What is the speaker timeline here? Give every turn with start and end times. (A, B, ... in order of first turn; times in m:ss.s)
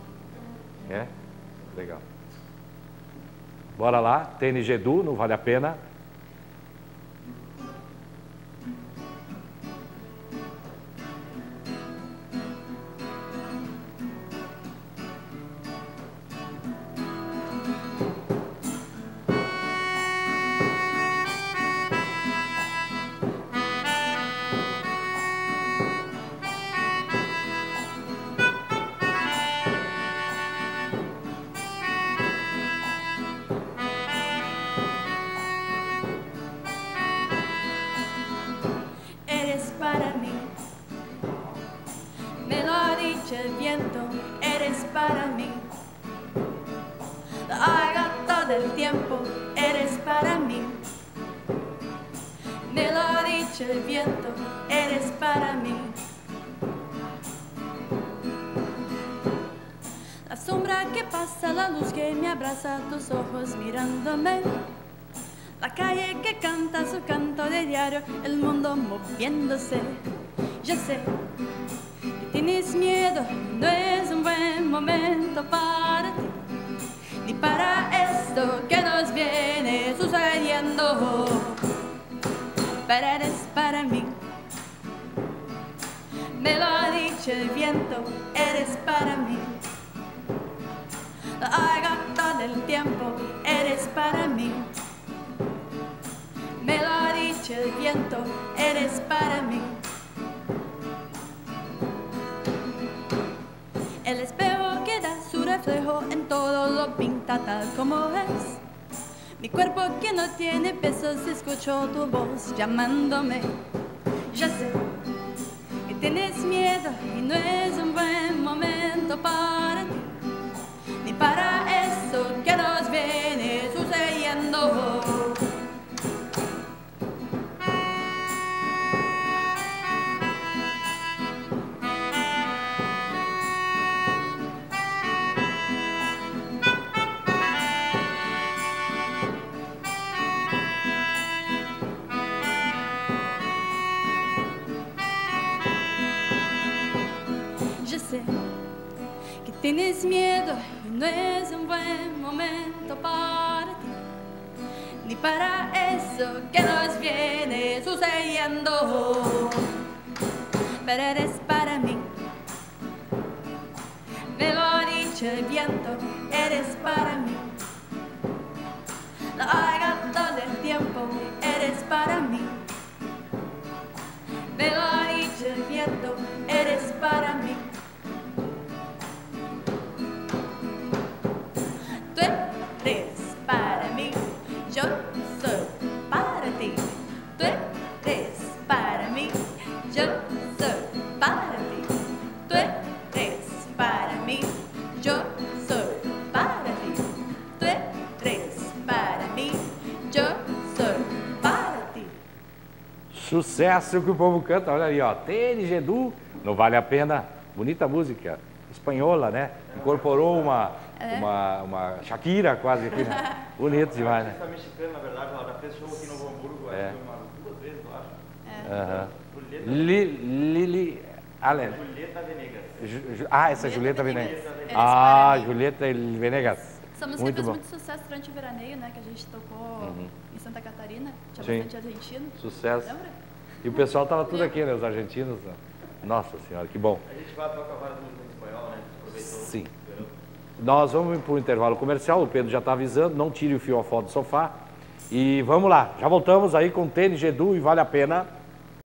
0:00.8-0:01.1 A
0:01.7-0:02.0 A
0:03.8-0:05.8 A
0:39.2-0:40.5 B
0:42.4-0:45.7 B
0:47.4-0:50.8 B
0:52.7-0:56.0 B
1:00.2-1:04.6 B
1:05.6-1:10.0 B
1:10.6-1:11.2 B
1:12.1-1:16.4 B
1:17.2-1:21.7 B
1:22.8-1:24.2 B
1:26.3-1:29.6 B
1:31.4-1:34.7 B
1:36.6-1:39.8 B
1:44.0-1:48.6 B
1:49.4-1:53.6 B
1:54.3-1:54.8 B
1:55.8-2:00.0 B
2:01.0-2:05.5 B
2:27.8-2:28.5 B
2:29.4-2:34.0 B
2:35.0-2:39.7 B
2:40.8-2:42.1 B
2:44.3-2:47.6 B
2:49.3-2:52.6 B
2:54.5-2:57.7 B
3:02.0-3:22.2 B
3:23.1-3:34.4 A
3:29.7-3:30.6 C
3:31.0-3:31.3 B
3:33.6-3:40.0 C
3:36.7-3:37.0 A
3:38.4-3:38.8 B
3:38.6-3:41.8 A
3:41.5-3:42.8 C
3:42.8-3:47.6 A
3:43.4-3:45.5 B
3:43.7-3:45.0 C
3:46.9-3:54.5 B
3:49.8-3:50.1 A
3:51.4-3:51.7 A
3:52.4-3:52.9 A
3:53.6-3:57.0 A
3:57.0-4:00.1 C
3:59.1-3:59.7 A
4:00.6-4:04.6 A
4:05.1-4:08.3 A